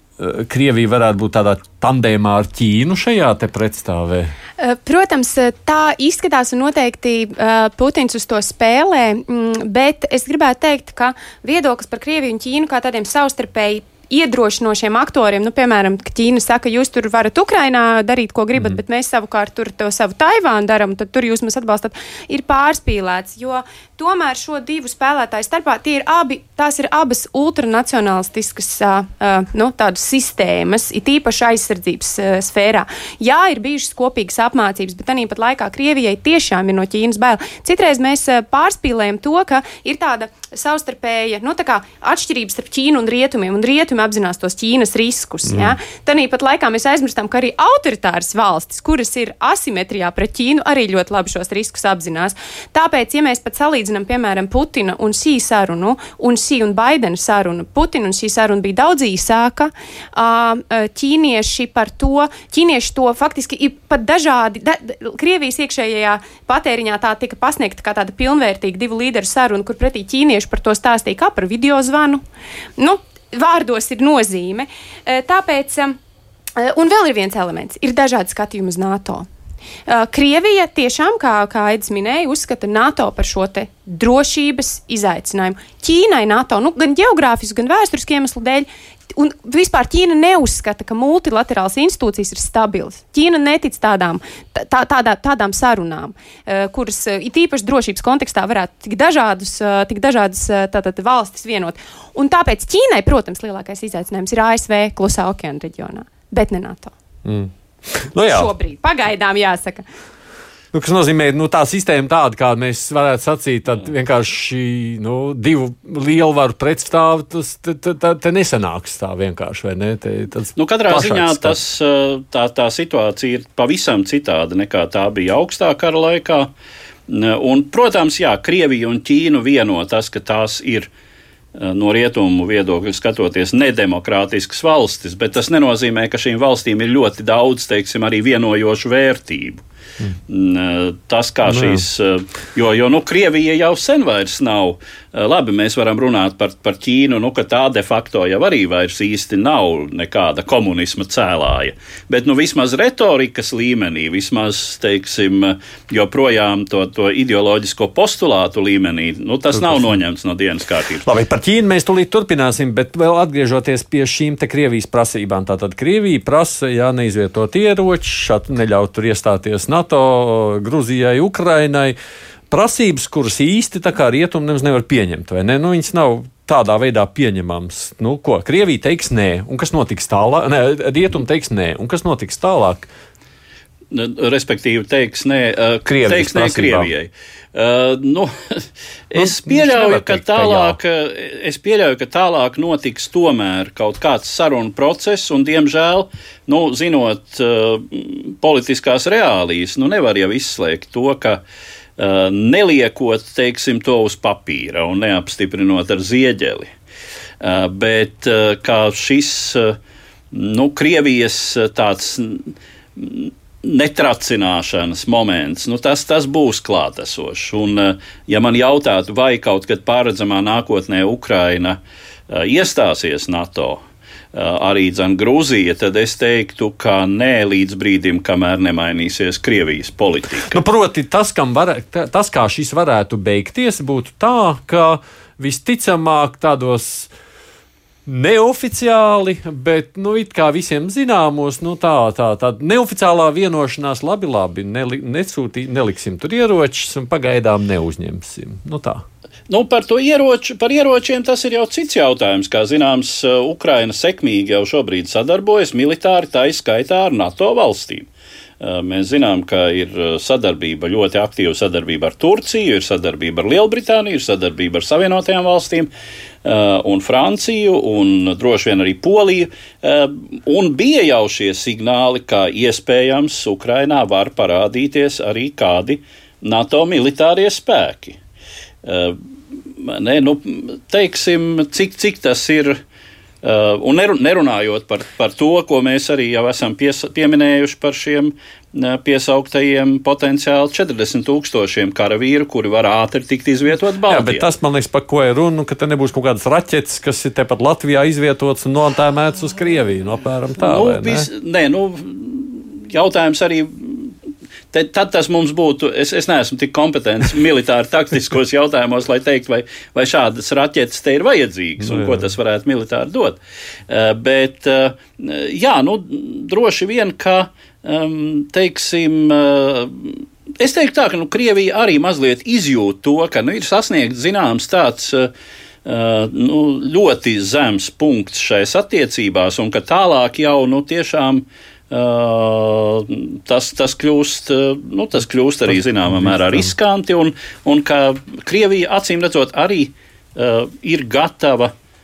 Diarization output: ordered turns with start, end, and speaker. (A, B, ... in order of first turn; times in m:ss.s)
0:00.2-0:04.3 A
0:04.6-1:12.2 B
0:45.5-0:45.8 A
1:12.8-1:16.0 B
1:16.6-1:19.2 B
1:19.9-1:46.9 B
1:47.2-1:48.5 A
1:48.3-1:49.9 B
1:50.7-2:01.6 A
2:00.6-2:06.5 C
2:07.1-2:10.9 C
2:11.6-2:19.6 C
2:20.3-2:41.1 C
2:21.5-2:21.8 A
2:39.5-2:40.0 A
2:41.1-2:52.0 A
2:52.5-3:02.9 A
3:03.9-3:21.4 C
3:05.9-3:06.9 A
3:09.2-3:10.8 A
3:22.0-3:26.7 C
3:27.4-3:29.8 C
3:30.3-3:41.8 C
3:42.3-3:43.8 C
3:44.3-3:50.6 C
3:50.5-3:57.1 A
3:58.1-4:09.0 A
4:09.5-4:18.1 C
4:18.6-4:25.9 C
4:26.4-4:38.2 C
4:38.8-4:39.2 C
4:39.8-4:42.8 C
4:43.4-4:54.5 C
4:54.1-5:01.3 A
5:00.6-5:04.2 C
5:04.7-5:13.4 C
5:11.8-5:12.3 A
5:13.9-5:25.3 C
5:25.8-5:41.7 C
5:35.7-5:36.7 A